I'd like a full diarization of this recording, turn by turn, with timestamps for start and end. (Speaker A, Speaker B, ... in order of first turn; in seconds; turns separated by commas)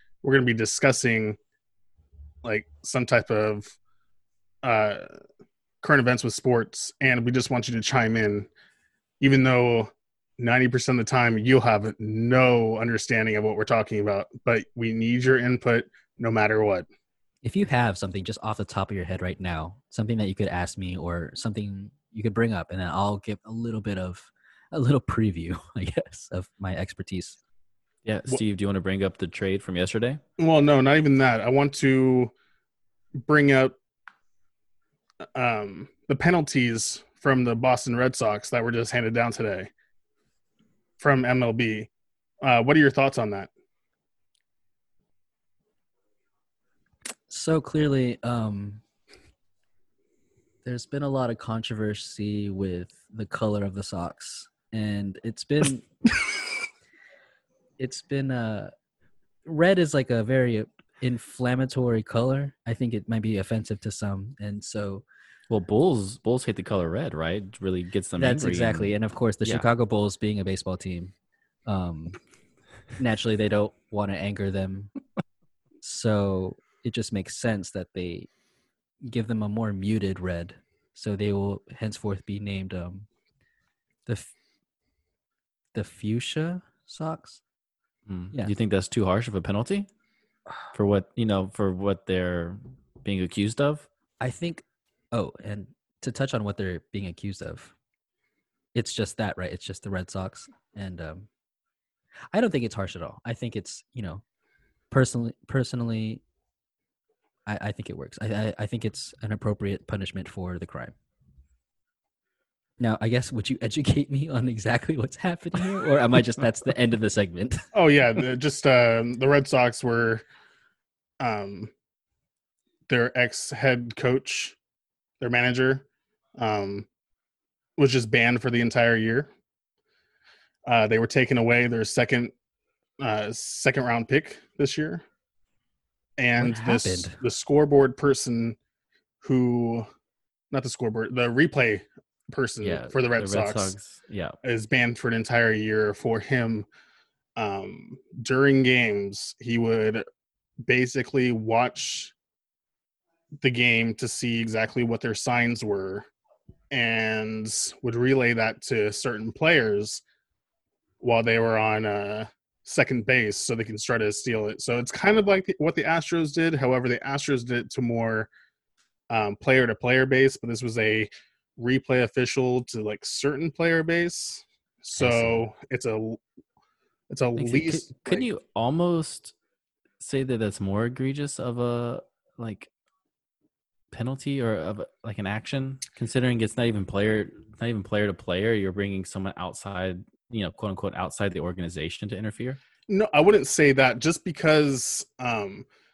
Speaker A: 0.2-1.4, Speaker A: 2.4-3.8, Speaker A: 4.6-5.1, Speaker A: 5.8-8.5, Speaker A: 9.2-16.9, Speaker B: 17.4-27.4, Speaker C: 28.0-30.2, Speaker A: 30.4-32.3, Speaker A: 33.2-33.8, Speaker A: 35.4-39.7, Speaker A: 41.0-41.9, Speaker A: 42.4-43.5, Speaker B: 47.3-48.8, Speaker B: 50.6-55.9, Speaker B: 57.8-58.7, Speaker B: 59.5-65.0, Speaker C: 65.5-69.7, Speaker B: 68.2-71.1, Speaker B: 71.7-72.2, Speaker B: 73.0-74.9, Speaker B: 75.8-78.3, Speaker B: 79.0-83.1, Speaker B: 84.1-84.3, Speaker B: 85.7-87.4, Speaker C: 88.1-89.9, Speaker C: 90.7-93.9, Speaker B: 94.2-97.7, Speaker B: 98.8-101.3, Speaker B: 102.3-104.2, Speaker B: 104.9-106.2, Speaker B: 107.5-110.9, Speaker B: 112.8-117.7, Speaker A: 117.7-120.2, Speaker A: 121.2-121.7, Speaker A: 122.9-124.6, Speaker A: 125.2-125.8, Speaker A: 126.4-126.9, Speaker A: 127.8-129.3, Speaker A: 130.7-132.3, Speaker A: 133.0-135.0, Speaker A: 136.2-138.6, Speaker B: 136.4-137.2, Speaker A: 139.2-139.9, Speaker A: 140.5-143.8, Speaker C: 142.6-144.4, Speaker A: 144.4-146.7, Speaker A: 147.4-150.1, Speaker A: 150.6-152.1, Speaker A: 153.4-156.1, Speaker A: 156.7-160.0, Speaker A: 161.0-168.3, Speaker A: 169.1-176.2, Speaker B: 175.0-175.5, Speaker A: 177.1-178.3, Speaker C: 177.4-179.3, Speaker C: 180.0-182.7, Speaker C: 183.9-192.6, Speaker A: 192.9-195.7